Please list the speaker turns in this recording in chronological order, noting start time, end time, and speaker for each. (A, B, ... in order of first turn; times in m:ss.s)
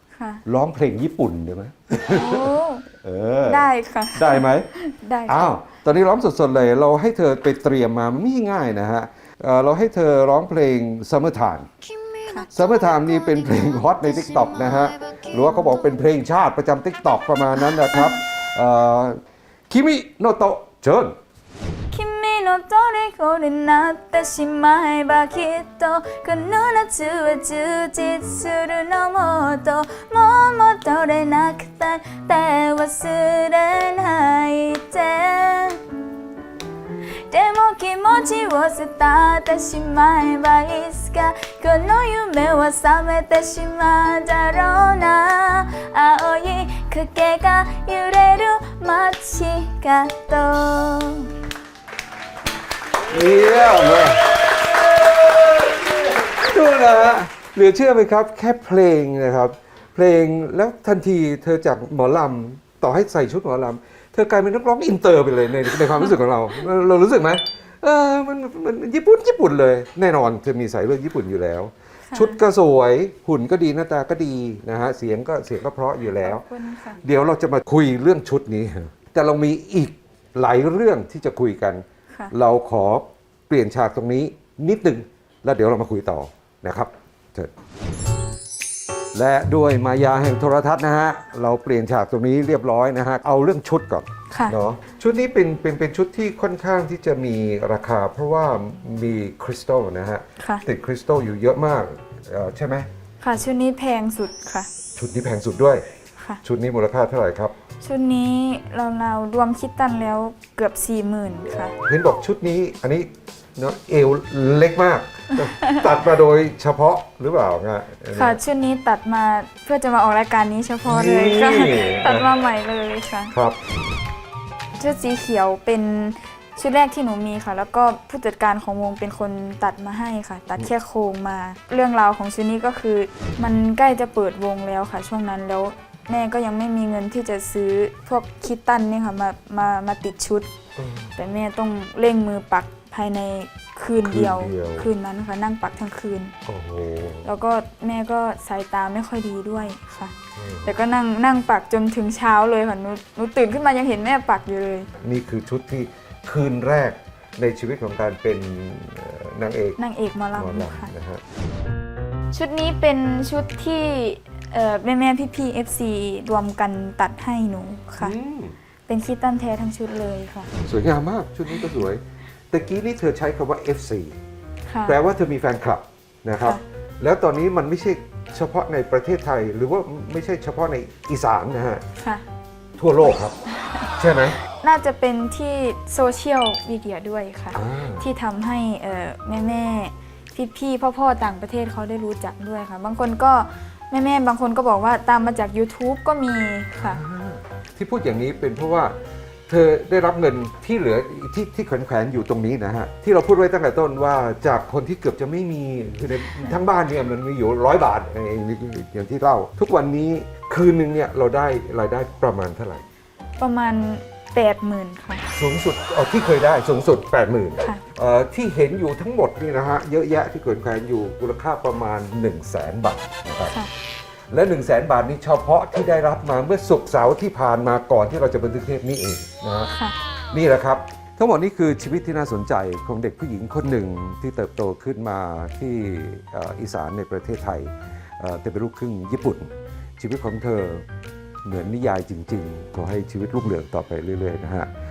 0:00.1-0:00.4 A
0:00.4-0:04.7 B
0:02.1-0:02.8 A
0:03.5-0:05.5 A
0:05.3-0:11.7 B
0:12.2-0:12.5 A
0:12.5-0:21.2 B
0:21.9-0:35.8 A
0:37.3-0:51.3 A
0:53.1-0:54.4 B
0:55.6-1:16.4 B
1:12.1-1:12.4 A
1:16.1-1:17.0 A
1:17.0-1:27.5 B
1:29.1-1:42.9 B
1:34.3-1:34.6 A
1:40.4-1:40.6 A
1:43.2-1:44.7 A
1:45.0-1:45.8 B
1:46.4-1:47.5 B
1:47.8-1:51.7 A
1:51.8-1:58.4 B
1:55.4-1:55.8 A
1:58.1-2:03.3 A
2:00.8-2:02.3 B
2:03.3-2:03.6 B
2:04.8-2:20.5 A
2:20.8-2:21.1 B
2:21.2-2:26.3 A
2:24.0-2:24.9 B
2:26.4-2:27.3 B
2:27.2-2:34.9 A
2:30.4-2:30.8 B
2:35.0-2:39.8 B
2:39.8-2:40.9 A
2:40.4-2:41.2 B
2:42.3-2:48.1 A
2:48.0-2:48.6 B
2:48.9-2:50.5 A
2:50.6-2:54.2 B
2:54.7-2:55.0 A
2:54.8-3:01.8 B
3:02.0-3:02.2 A
3:02.8-3:03.4 B
3:04.0-3:04.4 B
3:04.6-3:17.0 A
3:07.5-3:08.1 B
3:16.8-3:18.9 B
3:19.5-3:32.8 B
3:33.4-3:35.3 A
3:35.3-3:43.6 B
3:44.3-3:49.7 B
3:50.3-4:00.8 B
4:01.4-4:04.7 B